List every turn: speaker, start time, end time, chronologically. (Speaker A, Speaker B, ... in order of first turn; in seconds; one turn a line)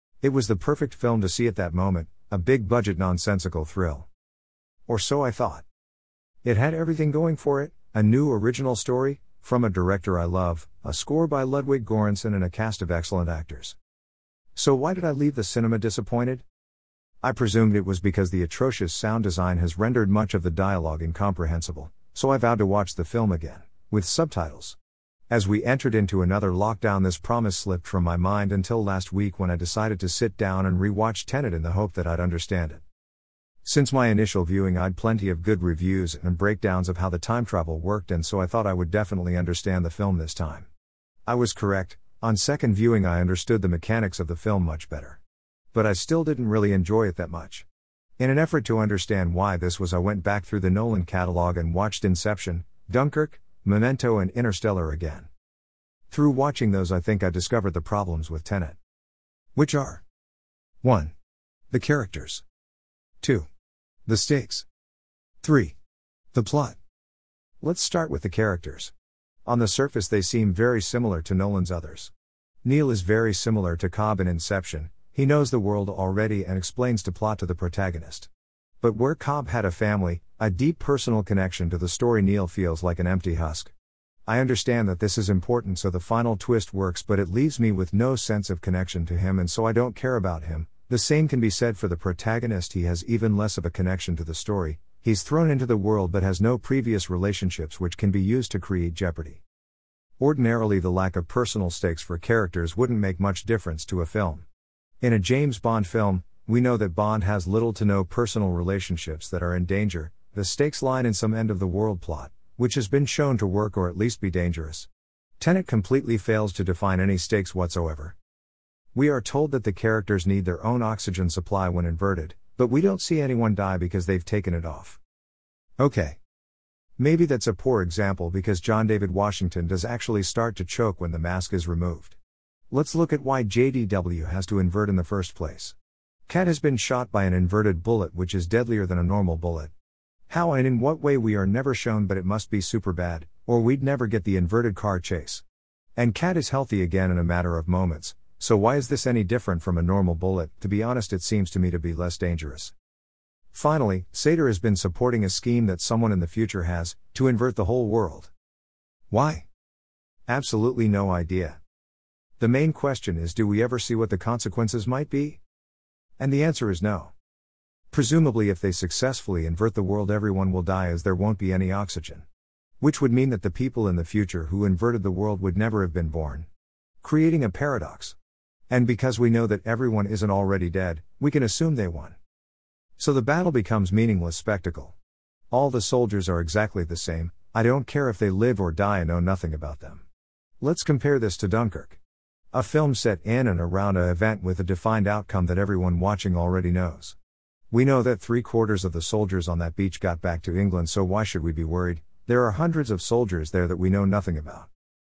Speaker A: 0.2-4.1
Speaker A: 4.9-5.6
Speaker A: 6.4-13.8
Speaker A: 14.5-16.4
Speaker A: 17.2-24.8
Speaker A: 25.3-32.8
Speaker A: 33.6-40.7
Speaker A: 41.3-45.2
Speaker A: 45.7-47.6
Speaker A: 48.2-55.3
Speaker A: 56.1-58.8
Speaker A: 59.5-60.0
Speaker A: 60.8-61.1
Speaker A: 61.7-62.4
Speaker A: 63.2-63.5
Speaker A: 64.0-64.7
Speaker A: 65.4-65.7
Speaker A: 66.3-66.8
Speaker A: 67.6-68.9
Speaker A: 69.5-72.1
Speaker A: 72.6-78.3
Speaker A: 78.8-83.7
Speaker A: 84.3-99.4
Speaker A: 100.2-104.4
Speaker A: 105.0-114.9
Speaker A: 115.4-118.2
Speaker A: 118.9-125.0
Speaker A: 125.8-126.2
Speaker A: 127.0-132.2
Speaker A: 132.7-135.7
Speaker A: 136.3-139.7
Speaker A: 140.3-145.4
Speaker A: 146.0-152.7
Speaker A: 153.5-158.3
Speaker A: 159.1-159.4
Speaker A: 160.3-161.6
Speaker A: 162.4-165.4
Speaker A: 166.2-167.1
Speaker A: 167.9-172.2
Speaker A: 172.8-176.5
Speaker A: 177.0-178.2
Speaker A: 178.7-182.2
Speaker A: 183.0-184.9
Speaker A: 185.5-190.0
Speaker A: 190.6-192.0
Speaker A: 192.5-197.2
Speaker A: 197.7-204.7